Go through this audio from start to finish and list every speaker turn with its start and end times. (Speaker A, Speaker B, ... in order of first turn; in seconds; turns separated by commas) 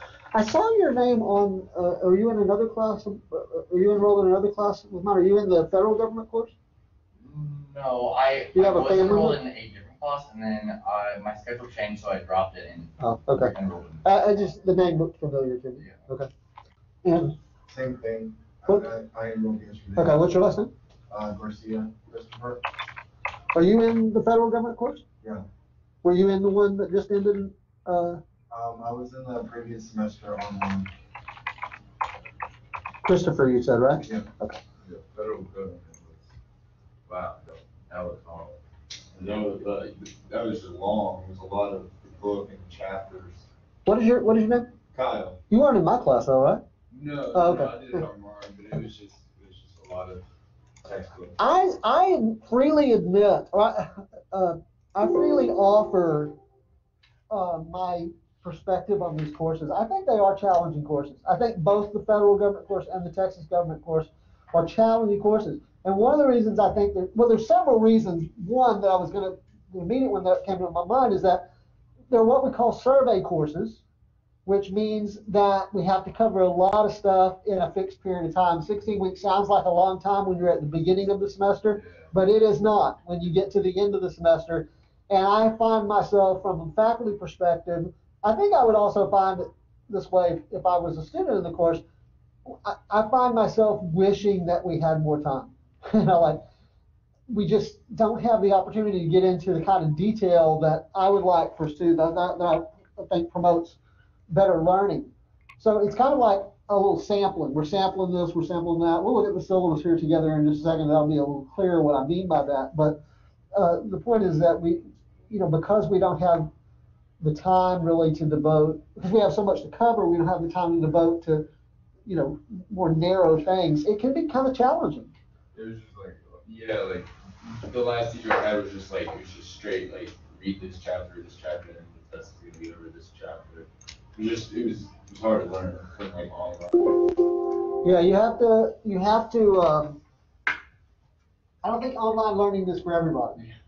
Speaker A: 0.3-6.5, Speaker B: 7.2-14.0, Speaker A: 8.5-9.4, Speaker A: 13.0-13.5, Speaker A: 14.0-16.3, Speaker A: 17.0-17.3, Speaker C: 17.7-20.2, Speaker A: 20.0-20.7, Speaker C: 21.1-22.6, Speaker A: 23.5-25.0, Speaker A: 26.0-28.2, Speaker C: 28.5-30.9, Speaker A: 33.0-34.6, Speaker D: 34.8-36.3, Speaker D: 37.1-38.6, Speaker D: 39.1-43.4, Speaker A: 43.9-44.7, Speaker D: 44.9-45.4, Speaker A: 45.5-46.6, Speaker D: 46.9-50.2, Speaker A: 47.3-48.0, Speaker D: 50.8-51.3, Speaker A: 51.4-56.4, Speaker A: 57.3-71.5, Speaker A: 72.1-73.8, Speaker A: 74.5-91.8, Speaker A: 92.5-96.4, Speaker A: 97.3-103.8, Speaker A: 104.3-113.0, Speaker A: 113.5-116.5, Speaker A: 117.2-121.5, Speaker A: 122.0-125.1, Speaker D: 125.5-137.1, Speaker A: 137.8-140.0, Speaker A: 141.6-143.4